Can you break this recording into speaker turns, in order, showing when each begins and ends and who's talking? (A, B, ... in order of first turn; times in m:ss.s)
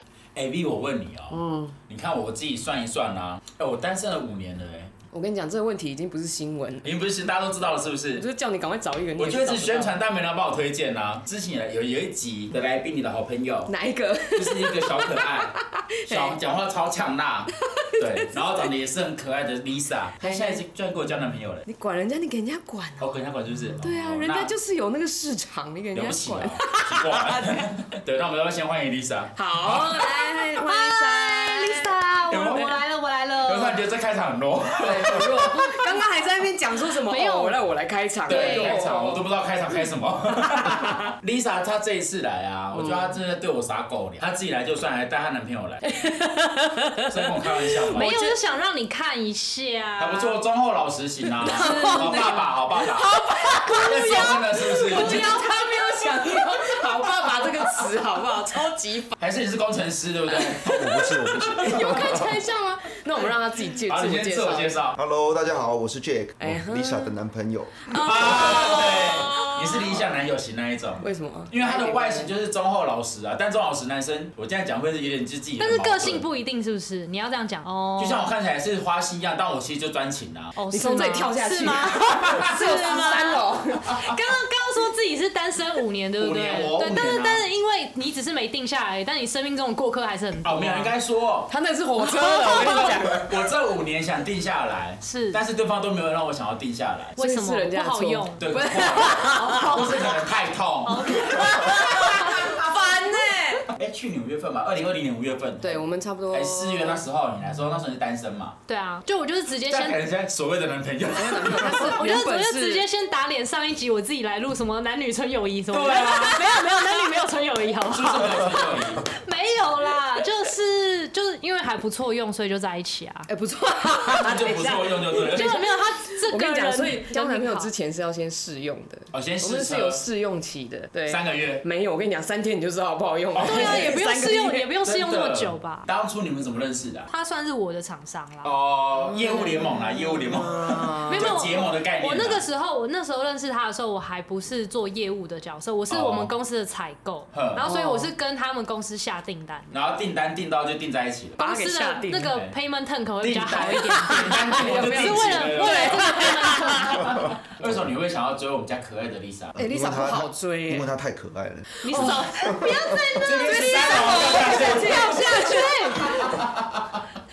0:00.4-0:04.9 A
0:01.3-0:01.8 B
0:05.1-0:06.9 B
0:06.8-0:08.3 A
0:08.2-0:10.0 B
0:09.2-0:13.7 A
0:13.7-0:16.4 B
0:14.4-0:15.5 A
0:16.1-0:21.7 A
0:17.7-0:18.7 B
0:20.2-0:20.6 B
0:21.7-0:23.1 B
0:23.0-0:24.5 A
0:23.8-0:27.7 B
0:25.9-0:30.1 A
0:29.4-0:31.9 B
0:30.0-0:33.8 C
0:32.3-0:32.8 A
0:33.4-0:35.6 A
0:34.8-0:39.3 B
0:37.0-0:37.6 C
0:38.3-0:45.9 A
0:38.3-0:38.8 C
0:40.5-0:41.1 B
0:42.7-0:43.2 B
0:45.8-0:48.3 B
0:47.1-0:48.1 A
0:47.9-0:50.4 C
0:50.0-0:55.4 A
0:51.4-0:59.2 B
0:51.4-0:52.5 C
0:53.8-0:55.7 C
0:59.2-1:00.9 A
1:00.3-1:04.8 B
1:00.6-1:02.4 D
1:01.4-1:02.3 A
1:03.7-1:05.0 A
1:05.0-1:08.5 D
1:06.4-1:07.1 B
1:07.9-1:10.0 B
1:07.9-1:16.2 A
1:11.0-1:12.3 B
1:15.6-1:18.3 C
1:18.0-1:20.6 A
1:20.6-1:30.9 C
1:20.7-1:24.0 B
1:22.3-1:22.8 A
1:26.2-1:27.4 A
1:30.4-1:31.5 A
1:31.5-1:33.3 B
1:32.1-1:32.9 C
1:32.5-1:37.2 A
1:35.0-1:35.4 C
1:37.2-1:38.5 C
1:37.2-1:40.0 B
1:38.4-1:42.8 A
1:39.2-1:40.2 C
1:40.8-1:42.5 C
1:41.1-1:43.7 B
1:43.7-1:48.6 A
1:45.6-1:47.0 B
1:48.7-1:50.0 C
1:49.7-1:52.0 A
1:51.1-1:52.8 B
1:51.7-2:03.3 C
1:55.7-1:56.5 A
1:57.9-1:59.1 A
2:03.3-2:05.6 B
2:04.1-2:05.6 A
2:05.2-2:07.7 C
2:06.2-2:14.7 B
2:09.1-2:10.0 A
2:11.1-2:11.6 A
2:13.3-2:14.0 A
2:13.4-2:15.9 C
2:14.8-2:17.1 A
2:17.1-2:18.5 C
2:18.4-2:22.4 A
2:19.1-2:21.5 B
2:21.1-2:29.7 C
2:25.9-2:26.3 A
2:27.3-2:27.7 A
2:27.6-2:28.1 B
2:29.7-2:31.4 A
2:31.4-2:32.3 B
2:31.4-2:37.3 C
2:33.2-2:39.6 A
2:33.7-2:37.1 B
2:39.6-2:43.0 D
2:39.6-2:40.9 B
2:41.8-2:46.4 C
2:41.9-2:42.6 B
2:43.2-2:47.0 A
2:43.3-2:46.4 B